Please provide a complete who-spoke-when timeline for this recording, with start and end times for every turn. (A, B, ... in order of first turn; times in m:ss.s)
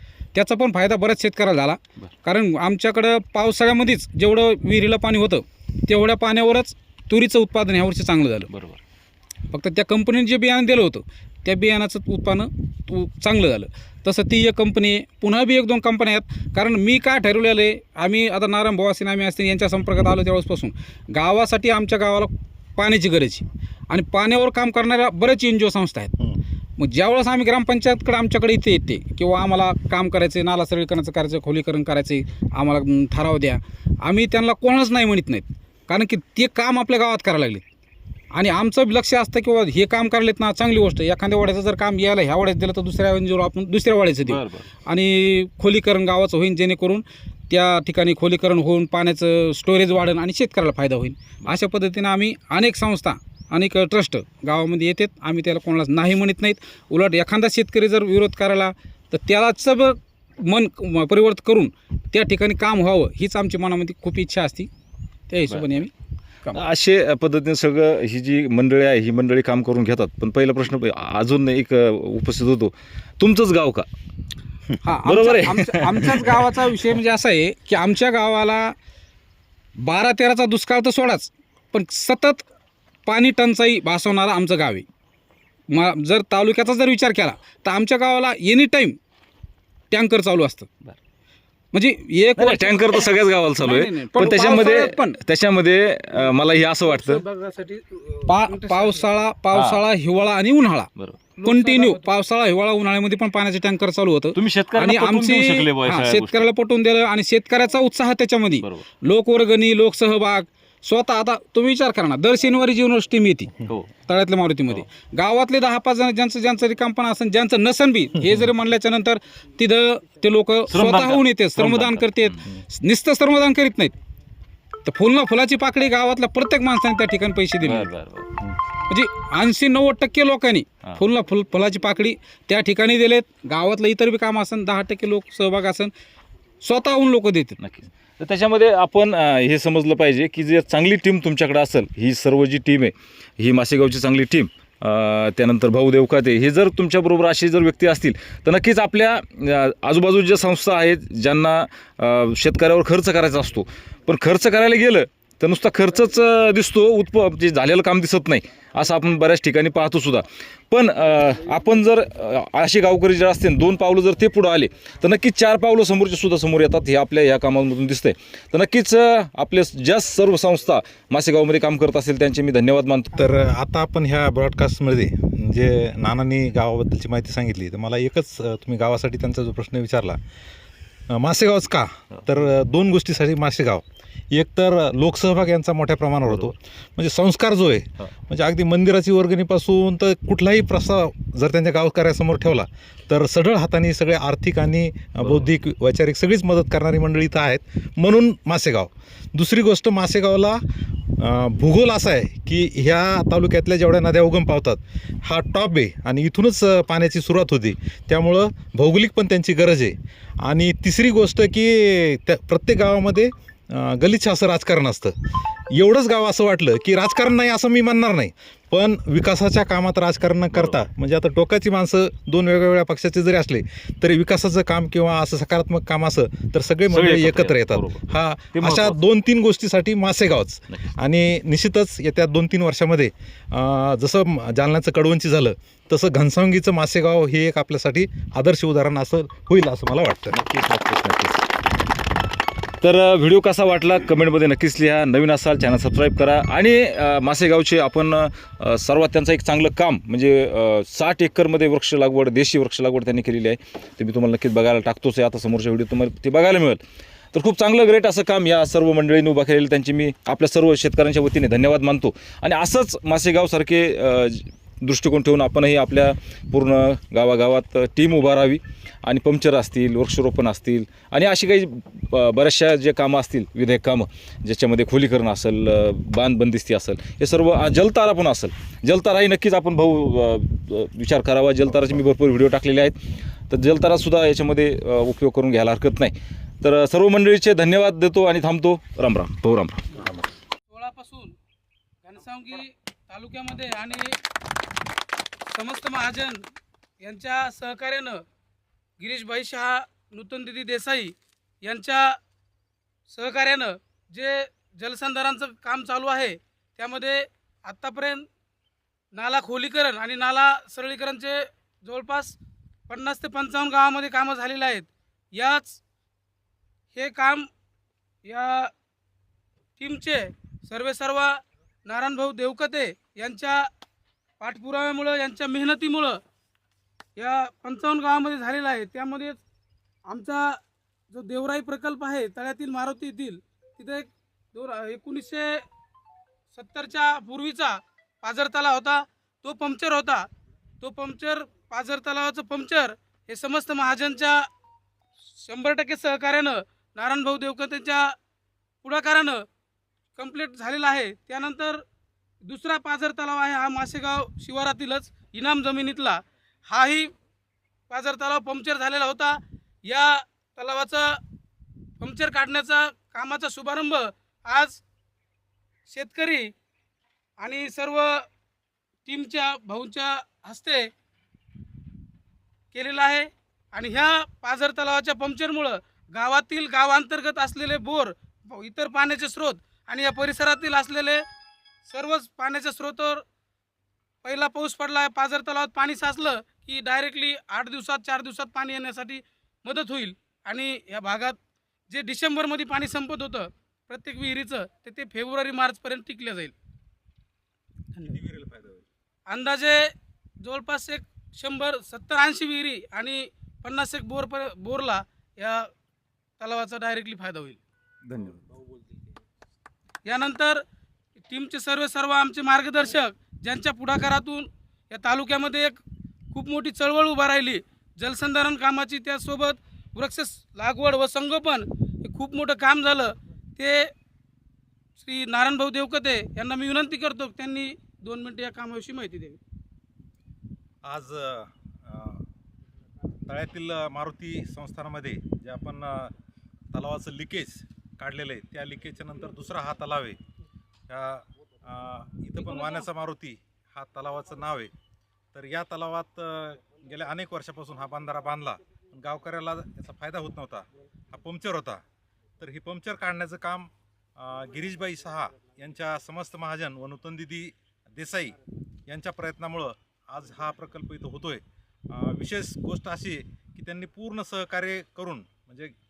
0:00.3-0:08.5 A
0:08.5-0:08.8 B
0:09.5-0:26.2 A
0:26.8-0:37.6 A
0:38.3-1:04.7 A
0:44.2-0:44.7 B
1:05.3-1:05.9 A
1:06.5-1:13.9 B
1:14.8-1:18.8 A
1:15.0-1:16.4 B
1:19.8-1:22.4 A
1:23.1-1:24.9 A
1:25.7-1:29.0 A
1:29.9-1:30.7 A
1:31.7-1:35.2 A
1:32.4-1:37.2 B
1:36.9-1:39.1 C
1:38.3-1:40.9 A
1:39.5-1:39.8 B
1:41.4-1:42.1 C
1:41.4-1:53.5 A
1:44.3-1:46.5 B
1:53.6-1:53.9 B
1:54.0-2:03.9 A
2:00.7-2:02.5 B
2:04.8-2:07.9 A
2:07.6-2:08.3 B
2:08.9-2:15.9 A
2:16.6-2:17.6 A
2:17.6-2:53.2 B
2:53.2-3:00.2 D
3:01.1-3:20.6 D
3:21.2-3:35.2 D
3:35.7-4:00.4 D
3:40.5-3:40.8 B
3:46.9-3:49.0 B
4:00.3-4:01.4 B
4:02.8-4:16.8 B
4:17.3-4:50.0 B
4:50.7-4:51.4 C
4:52.0-4:54.2 C
4:55.5-4:56.4 C
4:57.0-4:58.2 C
4:59.0-5:02.2 C
5:03.1-5:08.3 C
5:09.1-5:15.8 C
5:16.9-5:17.5 C
5:18.2-5:18.7 C
5:19.8-5:23.7 C
5:24.4-5:26.2 C
5:27.2-5:29.4 C
5:30.1-5:30.6 C
5:31.1-5:35.7 C
5:36.5-5:40.3 C
5:40.8-5:44.5 C
5:45.4-5:48.2 C
5:48.8-5:49.5 C
5:50.2-5:51.8 C
5:52.4-5:57.1 C
5:57.9-6:01.2 C
6:02.0-6:04.8 C
6:05.9-6:06.5 C
6:07.4-6:08.3 C
6:09.1-6:10.9 C
6:12.7-6:21.2 C
6:21.9-6:23.2 C
6:24.2-6:31.4 C
6:31.9-6:36.5 C
6:38.0-6:38.8 D
6:39.3-6:45.7 C
6:46.4-6:47.6 C
6:48.1-6:48.4 D
6:50.0-6:50.6 C
6:51.3-6:55.8 C
6:56.3-7:03.9 C
7:05.0-7:09.4 C
7:10.8-7:12.2 D
7:13.3-7:16.1 D
7:16.7-7:20.2 D
7:20.9-7:24.7 D
7:25.3-7:31.8 D
7:32.4-7:38.4 D
7:38.9-7:45.8 D